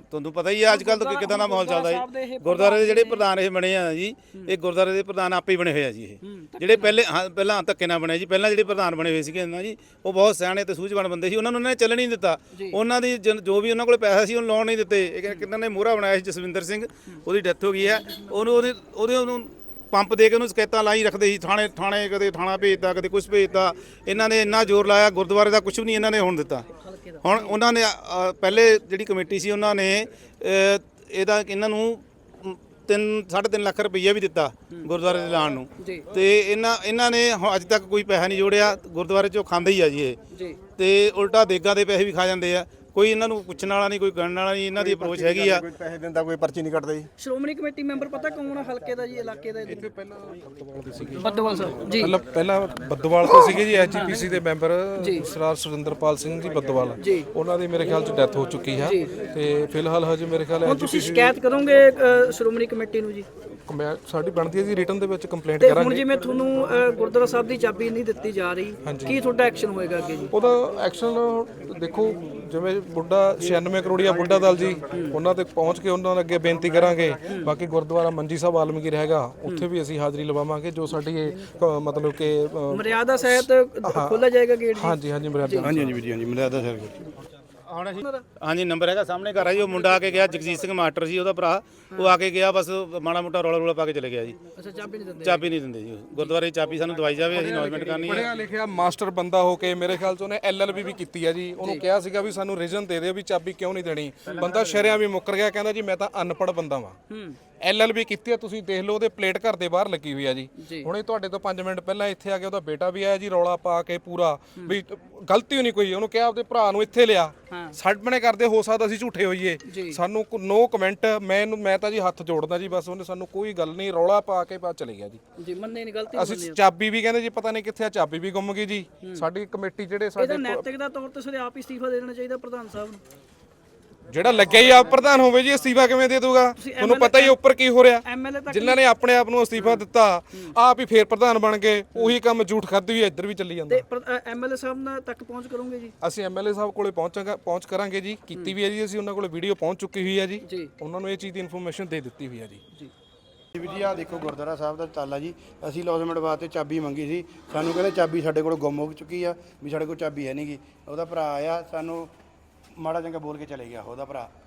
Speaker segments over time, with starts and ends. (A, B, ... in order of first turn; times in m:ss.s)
0:00.1-0:40.2 A
0:00.7-0:03.2 B
0:06.3-0:06.9 B
0:17.9-0:18.6 B
0:26.9-0:27.5 B
0:35.8-0:36.0 B
0:40.7-0:45.6 A
0:44.8-0:47.1 C
0:47.2-0:49.8 B
0:49.7-1:01.4 D
0:51.2-0:52.1 B
1:00.7-1:03.3 B
1:03.7-1:06.0 D
1:05.6-1:10.3 B
1:08.8-1:09.2 D
1:10.3-1:25.9 D
1:22.7-1:25.6 B
1:25.6-1:27.0 E
1:27.7-1:34.5 A
1:34.6-1:35.5 B
1:35.2-1:38.3 A
1:37.3-1:47.0 D
1:47.1-1:47.4 B
1:47.5-2:05.2 D
1:59.7-2:00.0 B
2:05.4-2:06.6 B
2:06.1-2:10.7 D
2:10.2-2:13.0 B
2:14.1-2:23.8 D
2:16.7-2:17.3 B
2:18.1-2:18.7 B
2:23.7-2:25.9 B
2:26.0-2:32.6 D
2:30.4-2:30.7 B
2:33.5-2:42.1 E
2:42.8-2:44.3 E